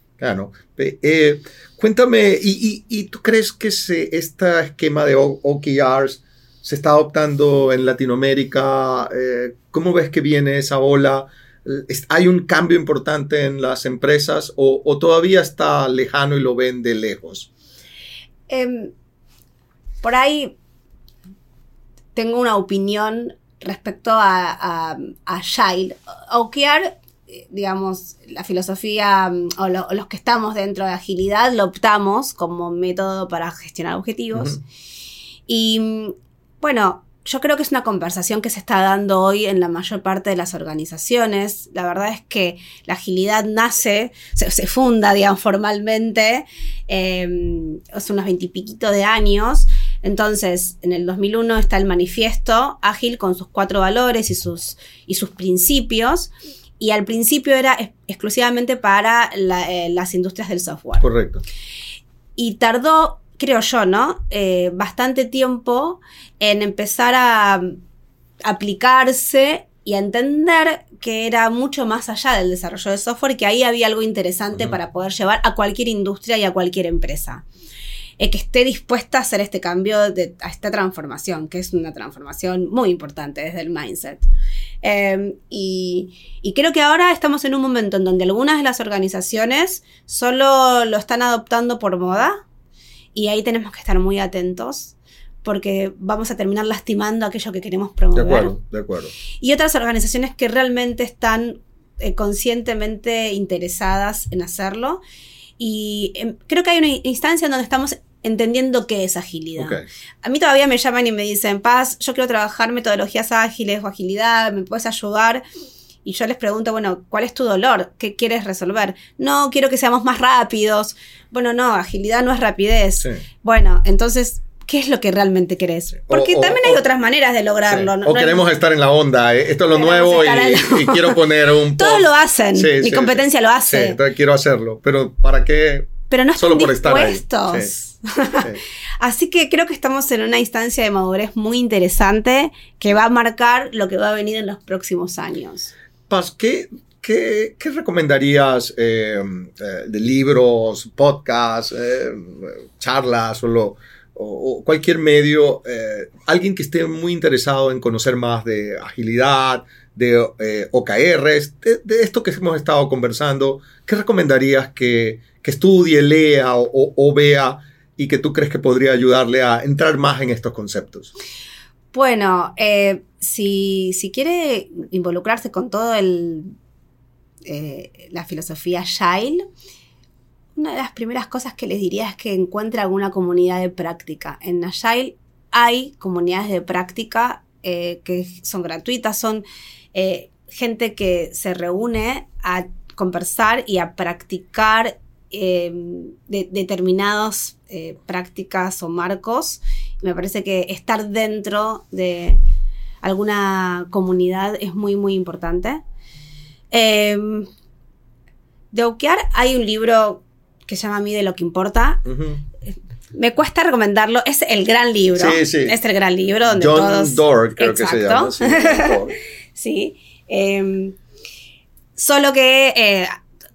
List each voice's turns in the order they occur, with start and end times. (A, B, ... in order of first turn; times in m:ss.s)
0:00.2-0:17.5 A
0:18.5-0:18.9 B
0:20.0-0:20.6 B
0:22.1-0:34.6 B
0:34.3-0:34.6 A
0:35.5-1:01.0 B
1:01.0-1:01.4 A
1:02.4-1:07.8 B
1:08.4-1:17.4 B
1:18.2-1:24.3 B
1:24.8-1:32.4 B
1:33.1-1:38.5 B
1:38.1-1:39.1 A
1:39.4-1:45.0 B
1:45.6-1:55.4 B
1:49.6-1:49.8 A
1:56.0-2:08.4 B
2:06.1-2:06.8 A
2:07.7-2:17.7 A
2:09.7-2:11.2 B
2:11.8-2:14.0 B
2:16.1-2:18.5 B
2:19.0-2:25.7 B
2:26.1-2:51.1 A
2:51.9-2:56.5 B
2:57.4-2:59.4 B
3:00.5-3:22.4 B
3:23.0-3:25.8 B
3:26.7-3:27.5 B
3:28.7-3:32.0 B
3:32.0-3:32.4 A
3:32.7-3:41.0 B
3:35.1-3:35.8 A
3:36.5-3:39.2 A
3:42.0-3:43.2 B